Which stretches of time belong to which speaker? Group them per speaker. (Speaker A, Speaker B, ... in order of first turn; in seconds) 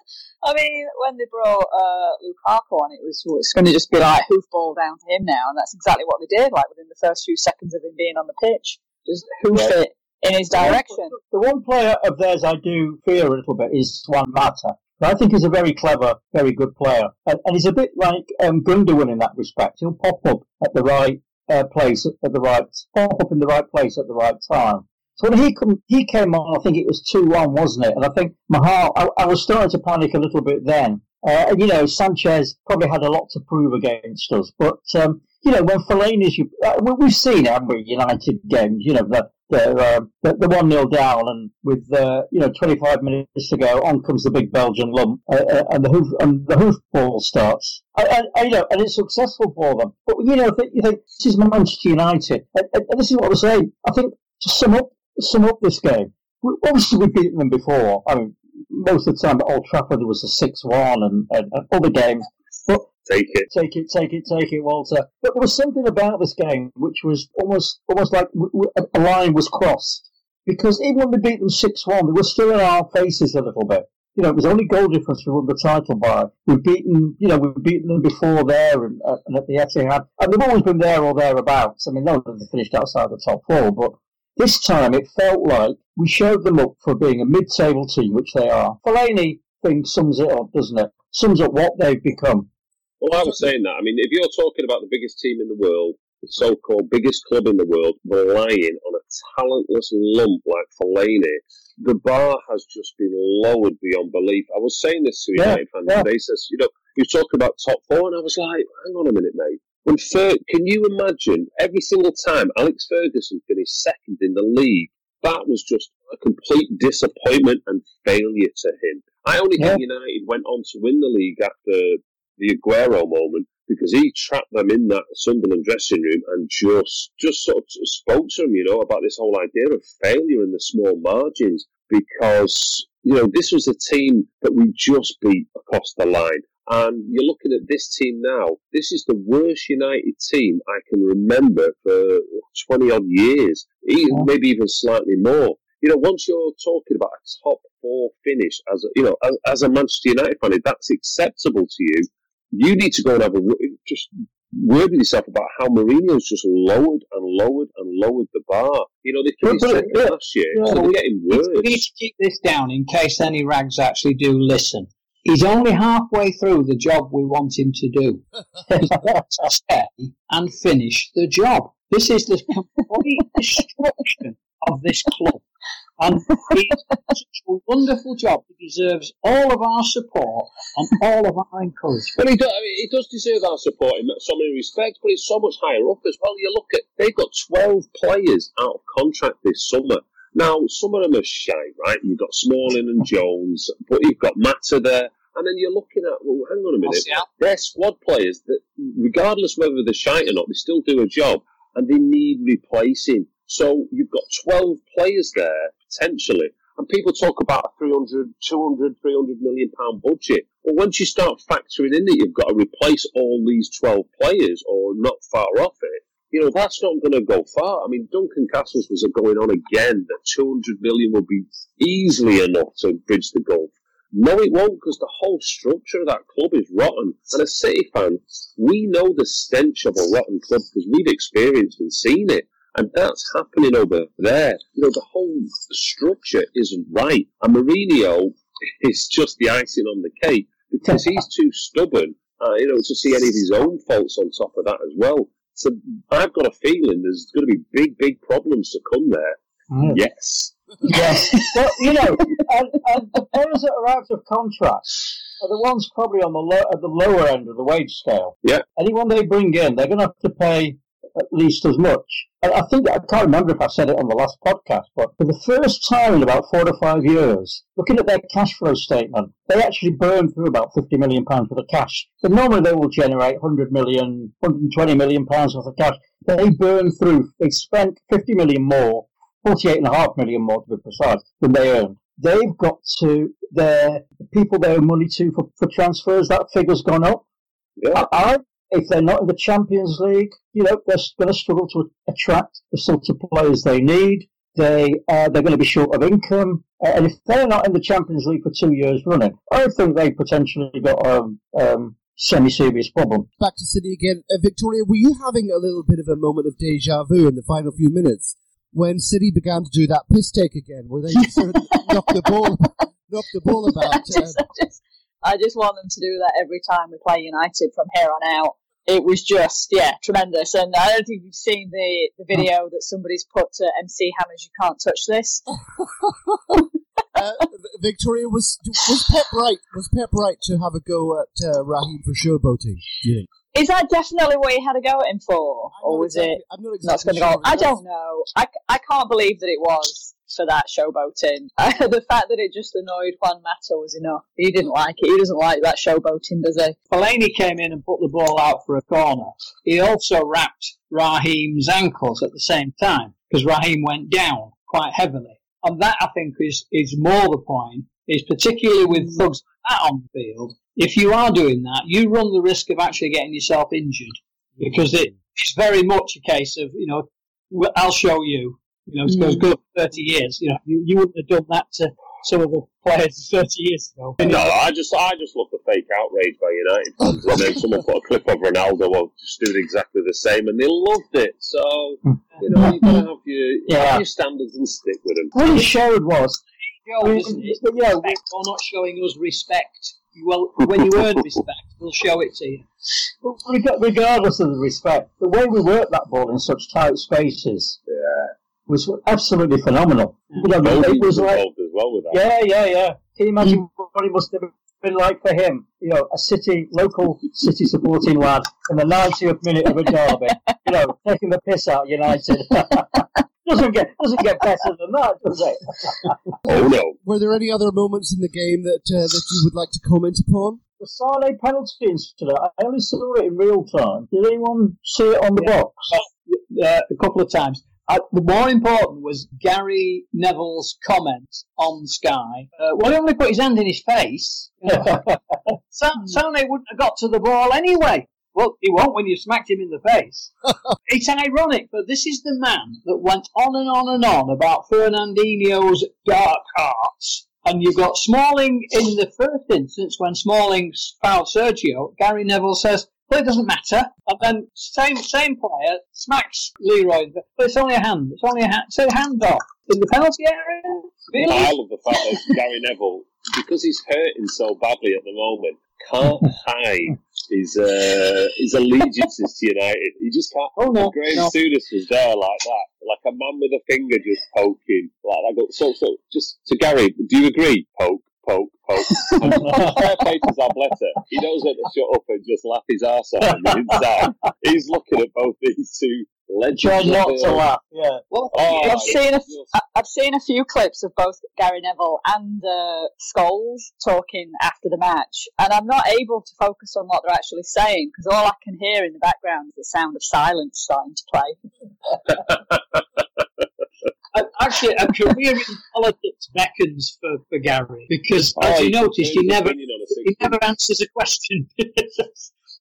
Speaker A: 0.4-11.1, 313.9-325.4, 333.5-346.8, 488.6-501.4
Speaker B: 10.6-62.9, 63.5-92.5, 105.3-106.0, 159.4-160.8, 168.7-169.2, 249.7-250.0, 250.8-287.2, 287.9-303.3, 382.1-382.9, 383.7-384.0, 385.3-386.4, 387.0-388.2, 393.2-397.8, 398.7-401.4, 402.1-416.3, 420.8-425.9, 434.7-435.1, 479.2-479.8, 486.5-488.0
Speaker C: 63.0-63.5, 93.0-161.8, 182.2-249.4, 249.9-251.1, 287.8-288.1, 374.2-385.3, 397.9-398.3, 400.6-402.2, 416.4-416.9, 461.2-487.4, 488.3-489.5, 508.4-510.4
Speaker D: 160.6-168.2, 168.8-175.4, 176.0-182.1, 196.8-197.2, 346.9-374.5, 386.8-392.6, 425.4-435.1, 435.7-440.3, 440.9-461.5, 470.6-471.3, 488.1-489.0, 504.1-512.3
Speaker E: 303.4-314.5, 326.0-326.6, 327.1-333.2, 335.7-337.8, 416.4-420.6